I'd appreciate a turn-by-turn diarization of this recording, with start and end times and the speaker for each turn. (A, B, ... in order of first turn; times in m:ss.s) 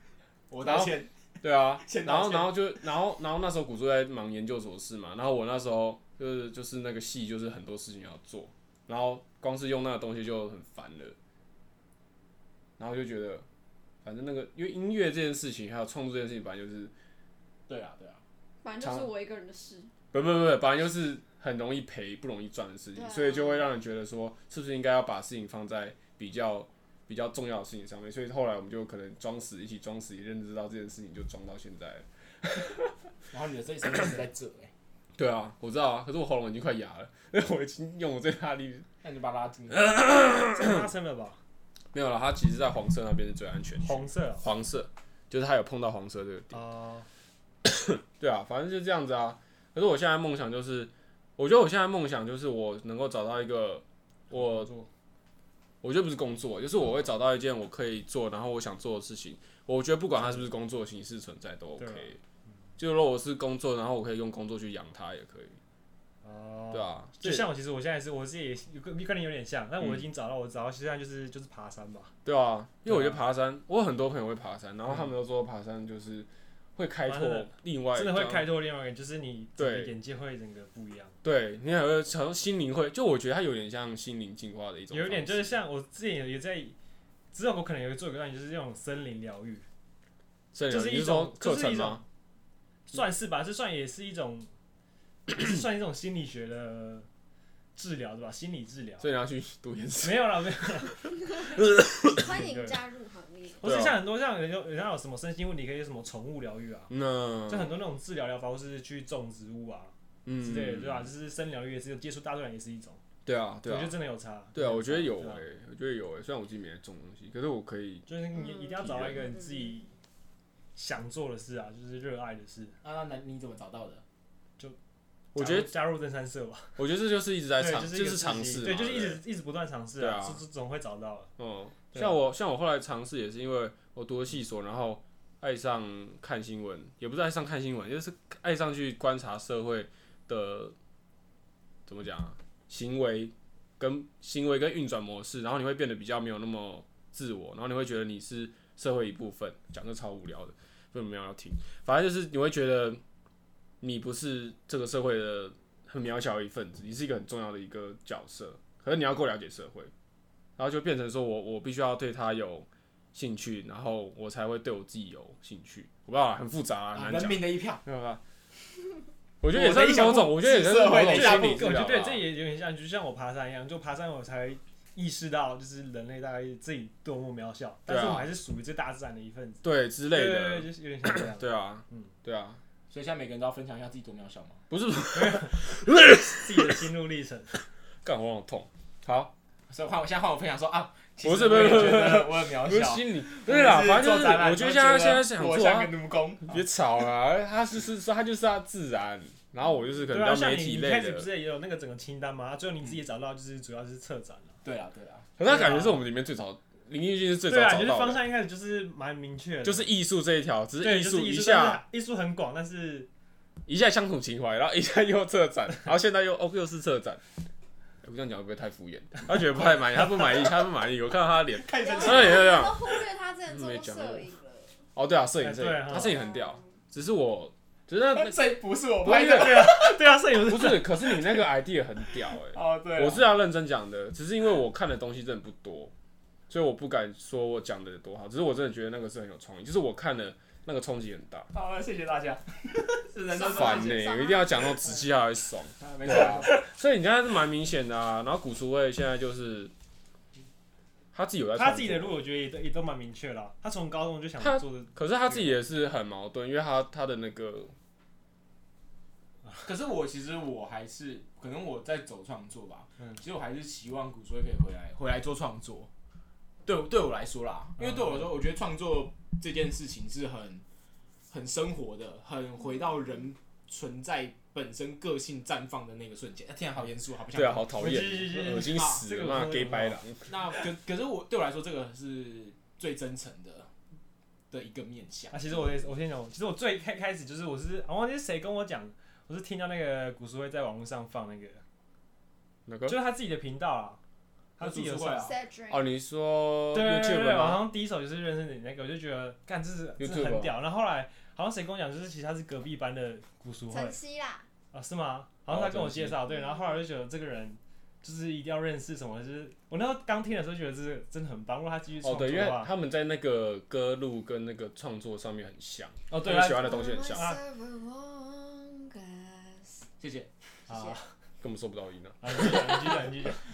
0:00.5-0:01.1 A
0:00.6-0:11.2 B
0:01.8-0:02.5 A
0:12.8-0:13.4 B
0:14.0-0:16.9 B
0:17.7-0:18.2 A
0:18.6-0:19.9 C
0:18.8-0:19.1 B
0:20.1-0:32.9 B
0:22.9-0:23.7 C
0:33.3-0:34.7 A
0:35.2-0:38.9 B
0:39.0-0:39.9 A
0:39.7-0:40.9 B
0:40.4-0:41.4 D
0:41.9-0:46.6 B
0:43.8-0:44.4 D
0:46.5-0:47.0 D
0:47.6-0:54.7 B
0:54.3-0:54.9 D
0:55.8-1:02.2 B
1:01.8-1:02.1 D
1:02.8-1:05.6 B
1:06.2-1:12.1 D
1:06.7-1:07.5 B
1:12.2-1:18.5 B
1:12.8-1:13.2 D
1:17.1-1:21.1 D
1:19.6-1:19.9 B
1:21.2-1:25.6 B
1:24.9-1:26.7 D
1:27.3-1:29.6 D
1:30.5-1:32.0 B
1:30.7-1:32.0 D
1:32.9-1:34.5 D
1:35.3-1:37.1 D
1:37.8-1:39.1 D
1:39.0-1:40.9 B
1:40.0-1:42.8 D
1:41.5-1:42.2 B
1:42.2-1:43.6 C
1:43.6-1:46.9 D
1:43.6-1:44.0 B
1:46.9-1:47.8 B
1:47.5-1:53.0 D
1:50.2-1:51.1 B
1:53.2-1:54.0 B
1:53.6-1:55.4 D
1:54.5-1:58.1 B
1:58.1-1:59.9 D
1:58.8-1:59.3 B
2:00.8-2:02.8 D
2:02.8-2:04.0 A
2:05.3-2:05.7 B
2:05.3-2:06.7 D
2:06.8-2:09.2 B
2:07.6-2:11.3 D
2:10.0-2:10.4 B
2:11.4-2:20.7 B
2:21.9-2:33.0 B
2:33.8-2:39.9 B
2:40.6-2:48.2 B
2:46.9-2:47.8 A
2:49.4-2:52.3 B
2:49.5-2:51.8 A
2:49.7-2:50.3 D
2:50.8-3:02.1 D
2:57.9-2:58.3 B
2:59.6-3:02.6 B
3:02.9-3:04.6 A
3:04.7-3:06.8 B
3:05.1-3:07.5 D
3:08.0-3:09.3 B
3:09.7-3:16.6 A
3:11.2-3:21.3 B
3:20.1-3:24.5 D
3:24.6-3:25.3 A
3:25.4-3:28.2 B
3:25.4-3:26.0 D
3:27.5-3:29.9 D
3:29.6-3:31.8 B
3:30.8-3:33.1 D
3:33.7-3:37.2 B
3:38.0-3:42.9 B
3:40.0-3:40.4 D
3:41.6-3:42.6 A
3:41.8-3:44.7 C
3:43.5-3:44.3 B
3:44.9-3:48.4 B
3:45.4-3:46.2 D
3:46.0-3:46.7 C
3:48.1-3:50.2 A
3:49.0-3:49.7 B
3:49.0-3:51.0 D
3:50.4-3:55.9 B
3:52.5-3:53.3 A
3:56.5-4:01.5 B
4:01.5-4:04.1 A
4:03.3-4:04.9 C
4:03.5-4:09.7 B
4:05.8-4:06.6 A
4:11.1-4:12.2 B
4:11.6-4:15.6 D
4:14.4-4:17.7 B
4:19.6-4:25.9 A
4:26.6-4:30.6 A
4:27.8-4:28.3 D
4:31.3-4:38.0 A
4:37.3-4:40.3 B
4:37.7-4:40.0 D
4:38.6-4:39.0 A
4:40.2-4:43.7 A
4:44.5-4:45.5 A
4:45.3-4:51.6 D
4:52.7-4:53.0 B
4:52.9-4:54.0 D
4:54.6-4:55.3 D
4:54.6-4:55.3 A
4:55.2-4:55.9 C
4:55.7-4:57.7 B
4:56.7-5:04.0 D
5:00.0-5:00.5 B
5:03.7-5:04.4 C
5:04.7-5:12.7 D
5:05.5-5:06.2 B
5:06.3-5:06.8 C
5:12.0-5:17.3 B
5:16.1-5:17.4 D
5:16.5-5:19.8 C
5:20.0-5:20.3 A
5:20.7-5:21.0 D
5:21.4-5:22.6 B
5:22.2-5:23.4 D